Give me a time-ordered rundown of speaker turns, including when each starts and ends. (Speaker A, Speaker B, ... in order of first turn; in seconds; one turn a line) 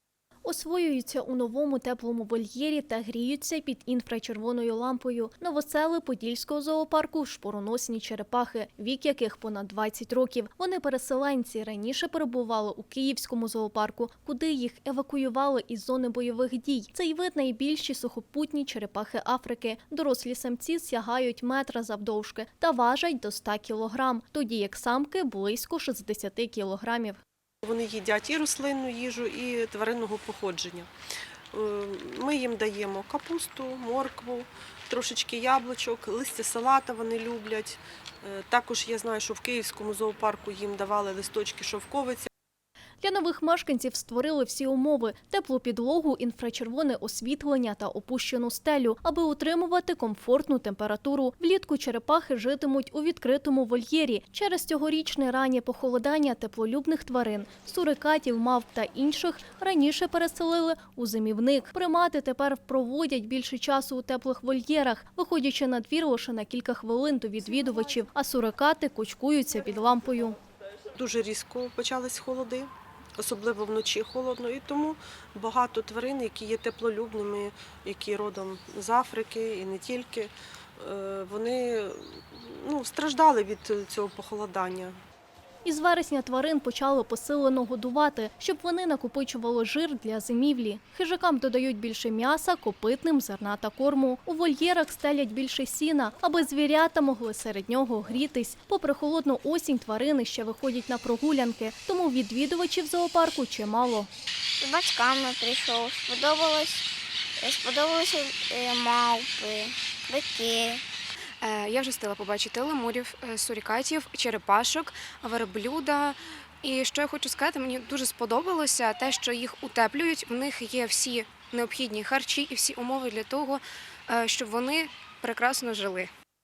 Speaker A: 0.5-27.2
Speaker B: 27.6-30.9
Speaker B: 31.5-42.3
Speaker A: 43.0-70.4
Speaker B: 71.0-85.0
Speaker A: 85.7-104.1
Speaker C: 104.6-110.8
Speaker D: 111.4-126.1